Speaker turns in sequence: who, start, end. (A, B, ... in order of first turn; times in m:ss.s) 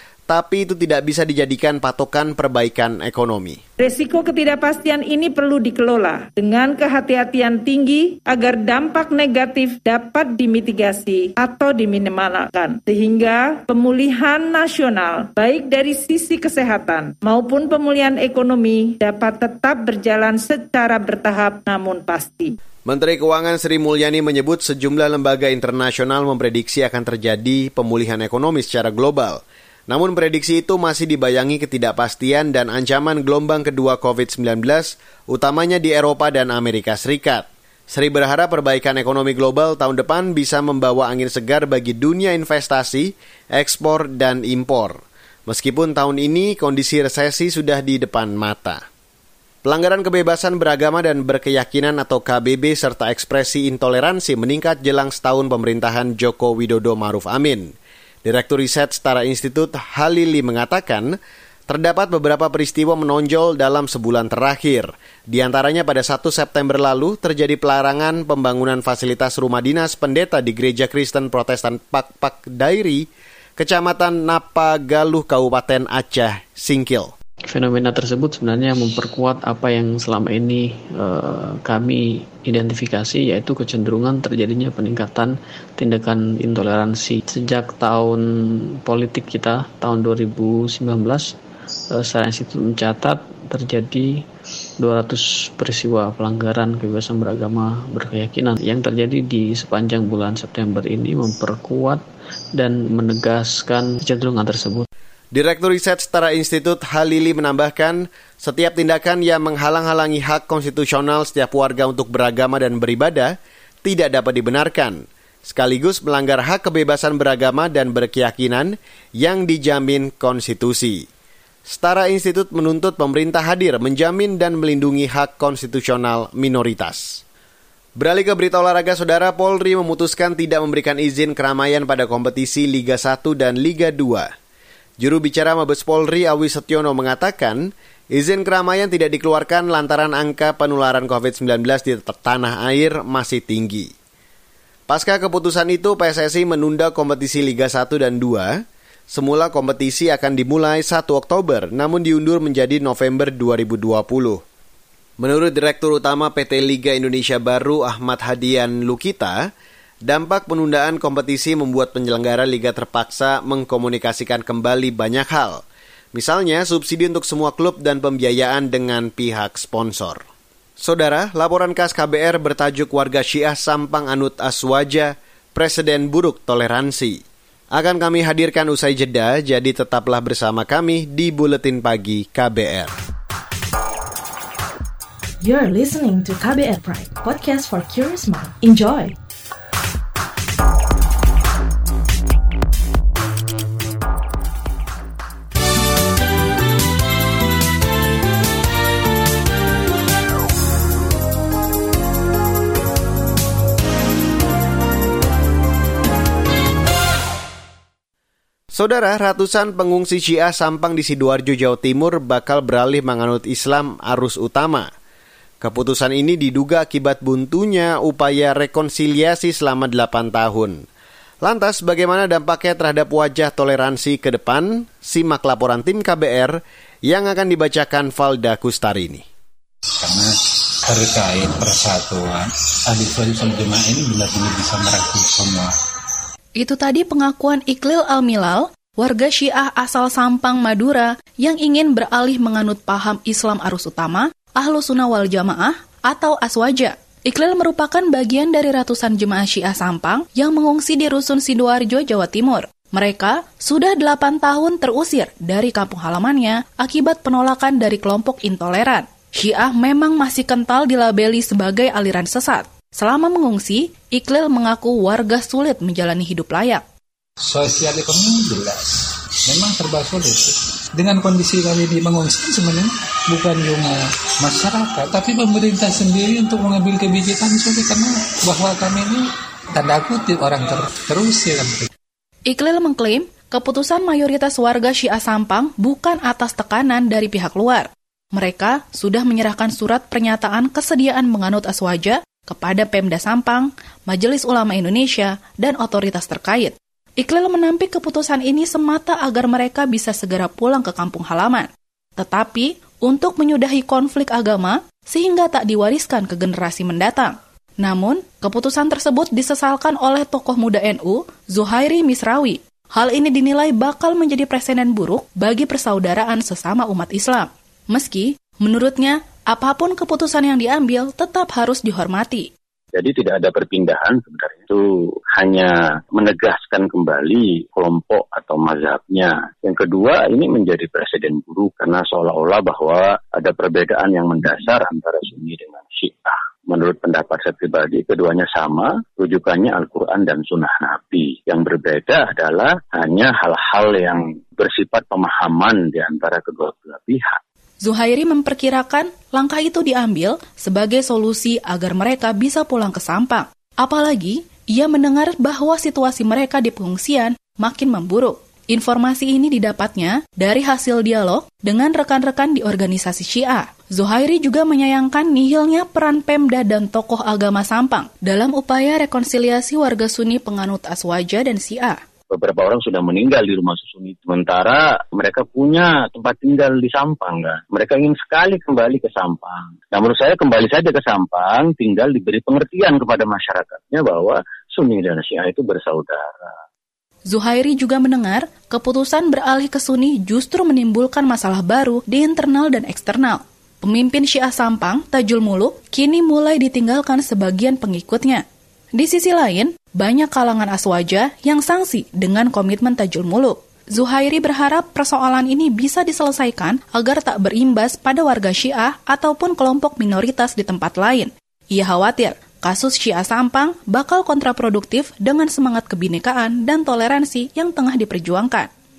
0:00.3-0:03.6 A
0:03.8-0:22.5 B
0:22.8-0:48.8 A
0:49.6-1:01.2 A
1:01.7-1:13.0 A
1:13.6-1:17.1 A
1:17.5-1:31.3 C
1:31.9-1:34.2 C
1:34.8-1:42.0 C
1:42.6-1:44.9 C
1:45.3-2:01.1 A
2:01.6-2:07.2 A
2:08.0-2:14.3 A
2:15.0-2:23.9 A
2:24.9-2:34.4 A
2:35.2-2:39.5 A
2:40.0-2:45.6 A
2:46.1-2:50.2 A
2:50.8-2:57.2 A
2:57.7-3:02.9 A
3:05.4-3:09.1 D
3:28.7-3:34.9 A
3:35.6-3:40.8 A
3:41.4-3:49.2 A
3:50.0-3:50.3 E
3:50.8-3:55.7 E
3:56.6-4:26.8 F
4:27.4-4:41.9 E
4:42.5-5:22.5 F
5:22.9-5:24.8 G
5:25.3-5:47.4 G
5:47.8-6:12.0 F
6:12.3-6:26.6 G
6:27.3-6:38.4 F
6:39.0-6:58.7 F